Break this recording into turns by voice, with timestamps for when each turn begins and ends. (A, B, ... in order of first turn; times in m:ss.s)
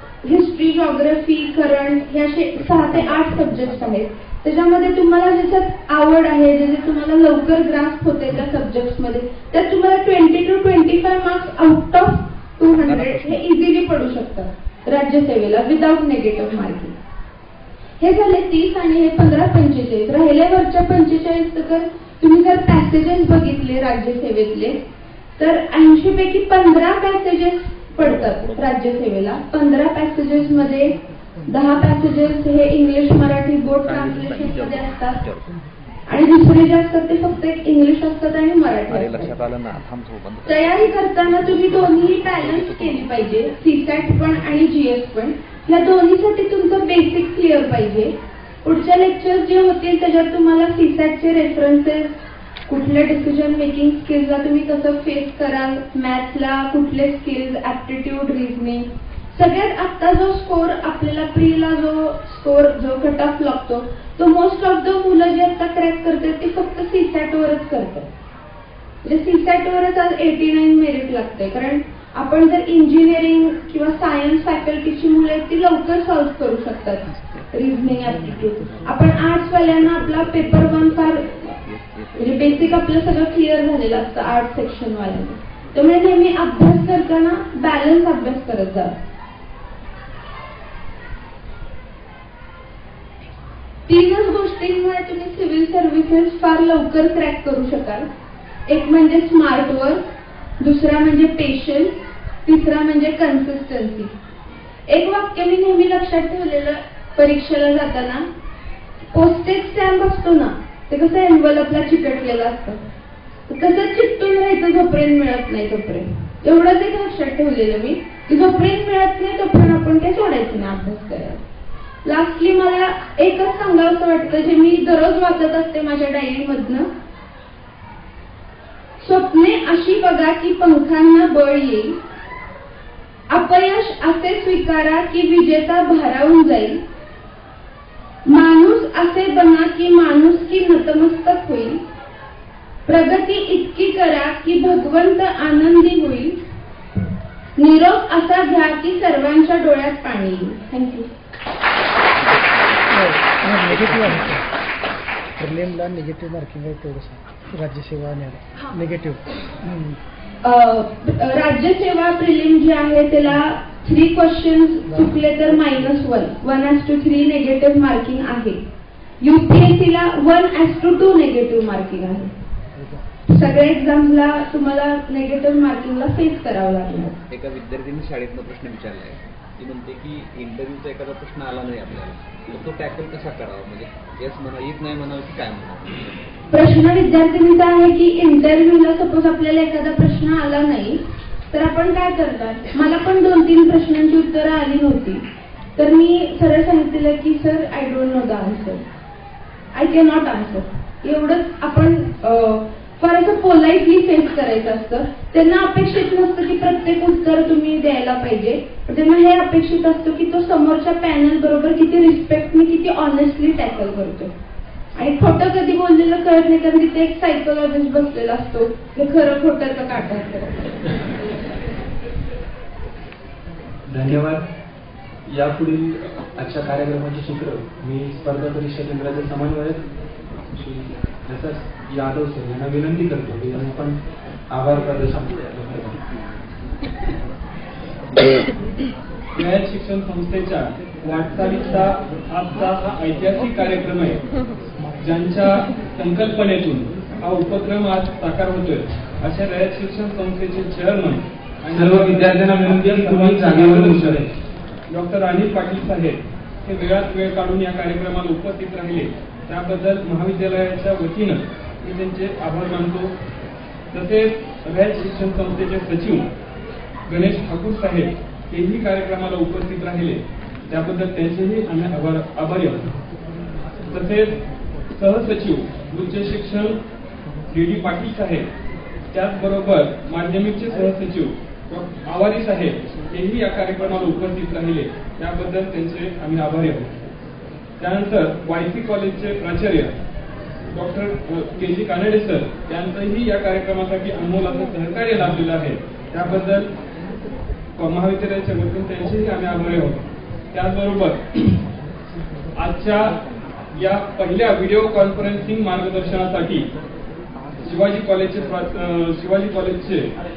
0:00.2-0:17.0 A
0:02.6-0:04.0 B
0:12.7-0:13.5 B
0:18.0-0:24.8 A
0:25.4-0:30.9 A
0:28.0-0:28.7 B
0:31.5-0:31.8 C
0:31.5-0:35.2 A
0:33.8-0:35.5 B
0:36.1-0:39.3 A
0:38.9-0:43.3 B
0:40.5-1:08.1 A
1:09.0-1:21.3 A
1:18.0-1:18.9 C
1:18.2-1:23.3 B
1:22.2-1:29.0 A
1:33.9-1:38.1 A
1:38.7-1:40.0 A
1:40.6-1:41.9 A
1:42.4-1:44.1 A
1:44.9-1:48.2 A
1:49.1-1:52.8 A
1:53.5-2:01.4 A
2:02.0-2:06.9 A
2:09.0-2:12.0 A
2:13.3-2:16.8 A
2:18.2-2:21.8 A
2:22.8-2:26.4 A
2:27.6-2:31.1 A
2:32.2-2:33.1 B
2:32.9-2:34.4 C
2:33.7-2:34.4 B
2:35.4-2:40.0 C
2:40.4-2:48.6 A
2:49.2-2:52.3 A
2:53.3-2:57.2 A
2:57.3-3:06.2 B
3:06.5-3:18.9 A
3:19.7-3:34.3 A
3:35.0-3:40.7 A
3:43.9-3:44.4 D
3:45.3-3:49.8 D
3:50.5-3:54.0 D
3:54.5-3:56.0 D
3:59.4-4:04.2 E
4:05.0-4:14.2 E
4:11.7-4:14.3 D
4:11.7-4:12.2 C
4:14.9-4:23.1 E
4:23.9-4:26.3 E
4:27.1-4:32.9 E
4:33.9-4:34.3 E
4:34.9-4:36.8 E
4:37.5-4:38.5 E
4:39.1-4:46.9 E
4:47.8-4:50.0 E
4:50.7-4:56.7 E
4:57.8-5:01.6 E
5:02.6-5:03.2 E
5:03.7-5:06.7 E
5:07.6-5:10.1 E